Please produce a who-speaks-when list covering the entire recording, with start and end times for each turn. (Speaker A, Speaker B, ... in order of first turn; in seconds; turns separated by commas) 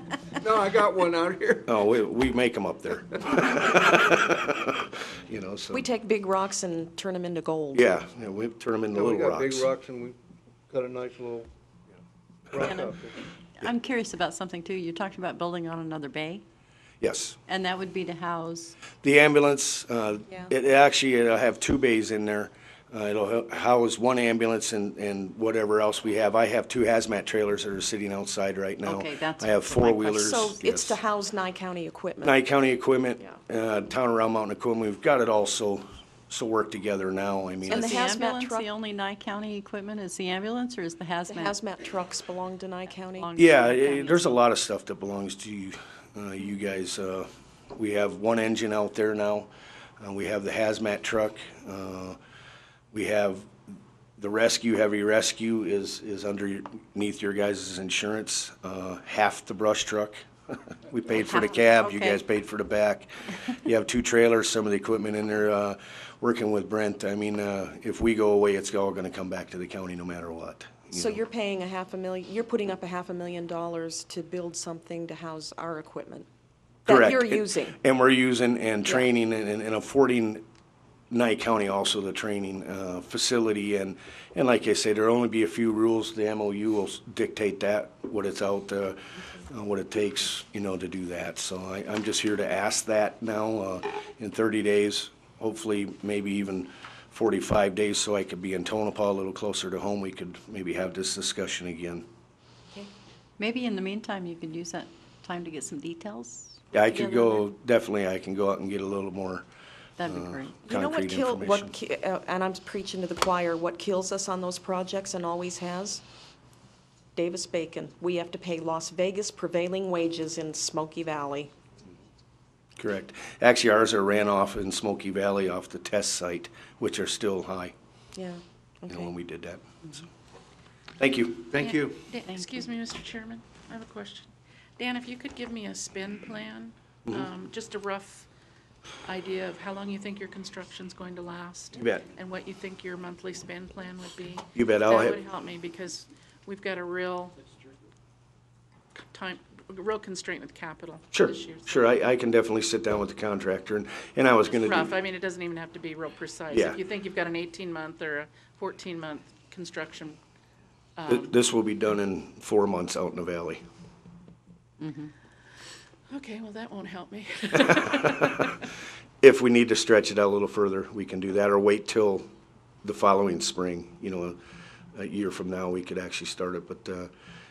Speaker A: 0.4-1.7, Speaker B: 1.7-5.8, Speaker C: 5.7-8.0, Speaker B: 7.7-9.7, Speaker A: 8.9-10.2, Speaker A: 10.7-11.5, Speaker A: 12.5-13.1, Speaker D: 12.6-13.0, Speaker D: 13.6-16.4, Speaker B: 17.0-17.4, Speaker D: 17.5-18.8, Speaker B: 19.0-31.0, Speaker D: 28.8-30.5, Speaker C: 30.2-32.4, Speaker B: 32.2-37.9, Speaker D: 37.6-41.6, Speaker C: 37.7-38.7, Speaker C: 41.3-43.3, Speaker D: 43.2-44.4, Speaker B: 43.4-49.5, Speaker B: 50.0-52.2, Speaker B: 52.9-53.5, Speaker B: 54.2-71.2, Speaker D: 61.1-62.2, Speaker C: 70.9-76.3, Speaker C: 76.9-77.8, Speaker B: 76.9-80.4, Speaker B: 81.1-102.0, Speaker D: 103.4-106.6, Speaker B: 106.7-109.5, Speaker D: 110.0-110.6, Speaker B: 110.1-111.7, Speaker C: 110.7-116.0, Speaker C: 117.2-121.5, Speaker B: 122.8-127.7, Speaker C: 128.2-129.1, Speaker B: 128.9-130.0, Speaker B: 131.0-131.5, Speaker A: 131.5-132.1, Speaker E: 131.6-138.3, Speaker D: 132.3-132.7, Speaker E: 139.1-147.3, Speaker B: 141.8-142.1, Speaker B: 144.6-145.2, Speaker E: 149.0-151.9, Speaker B: 151.1-154.9, Speaker E: 154.4-160.2, Speaker B: 156.5-156.8, Speaker E: 161.0-161.3, Speaker B: 161.1-163.6, Speaker D: 164.8-165.1, Speaker E: 166.1-168.4, Speaker B: 168.2-168.4, Speaker B: 169.2-172.3, Speaker B: 172.8-174.4, Speaker B: 174.9-177.1